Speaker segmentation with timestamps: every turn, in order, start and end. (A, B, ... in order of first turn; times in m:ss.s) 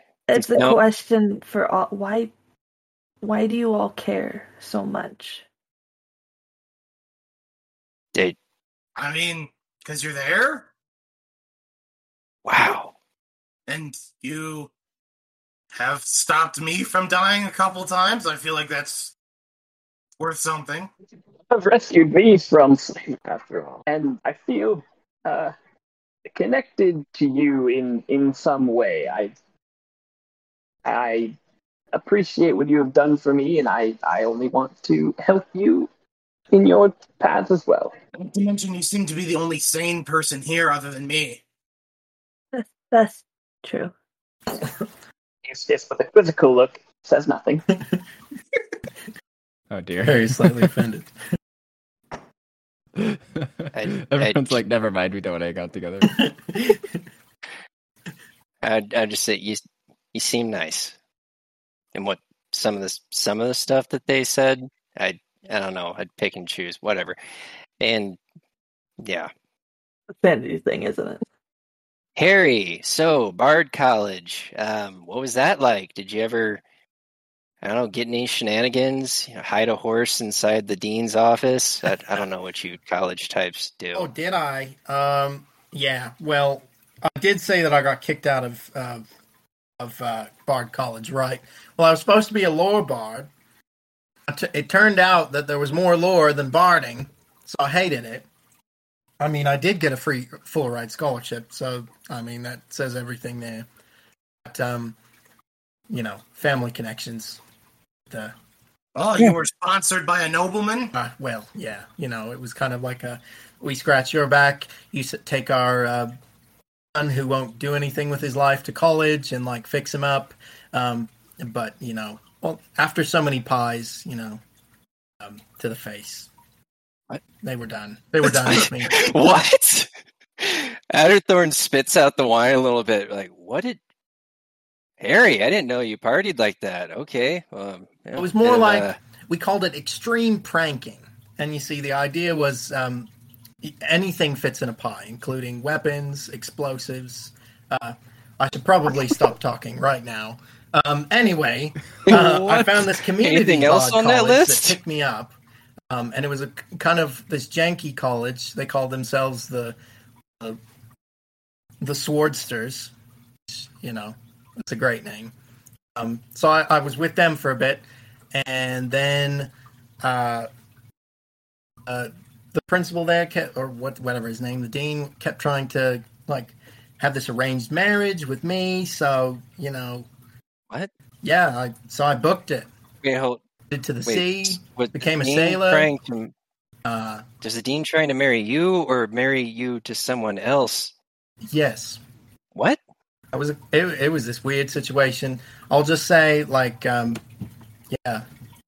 0:00.3-0:02.3 A
0:00.3-0:00.8 B
0:03.2-0:05.4 A
0:09.0-0:10.7 C
0:12.4-0:12.9 B
0:13.7-0:14.7 C
0:15.7-0:19.1 C
0:20.2-0:20.9 C
0:21.5-0:25.5 D
0:26.3-0:29.4 D
0:30.8-0:31.4 D
0:31.9-0:35.9 D
0:36.5-0:37.9 D
0:38.2-0:41.4 C
0:42.5-0:43.9 A
0:45.5-0:47.6 D
0:49.7-0:50.7 E
0:50.0-0:51.1 F
0:53.0-0:56.2 E
0:53.7-0:54.6 B
0:56.1-0:56.9 F
0:58.6-0:59.6 B
1:00.1-1:01.0 B
1:02.0-1:07.2 B
1:07.8-1:08.2 B
1:09.0-1:09.3 B
1:10.2-1:11.2 A
1:12.2-1:16.6 B
1:17.6-1:24.1 B
1:24.0-1:29.1 F
1:29.8-1:33.3 F
1:34.3-1:38.3 F
1:39.2-1:43.7 F
1:44.5-1:45.0 F
1:45.9-1:47.4 F
1:49.0-1:50.9 C
1:51.0-1:56.1 F
1:57.0-2:04.4 F
2:05.2-2:06.3 F
2:07.4-2:09.1 F
2:08.2-2:09.9 B
2:10.4-2:13.8 B
2:15.0-2:19.0 B
2:18.2-2:23.1 F
2:23.6-2:35.4 F
2:32.0-2:34.8 B
2:35.9-2:39.8 F
2:41.8-2:42.9 F
2:43.5-2:45.3 F
2:46.0-2:50.5 F
2:51.9-3:00.1 F
3:01.2-3:02.7 F
3:03.0-3:03.4 B
3:03.7-3:05.9 F
3:04.1-3:06.3 B
3:06.9-3:07.2 F
3:07.4-3:10.9 B
3:11.5-3:12.0 F
3:13.3-3:17.2 F
3:17.9-3:18.2 F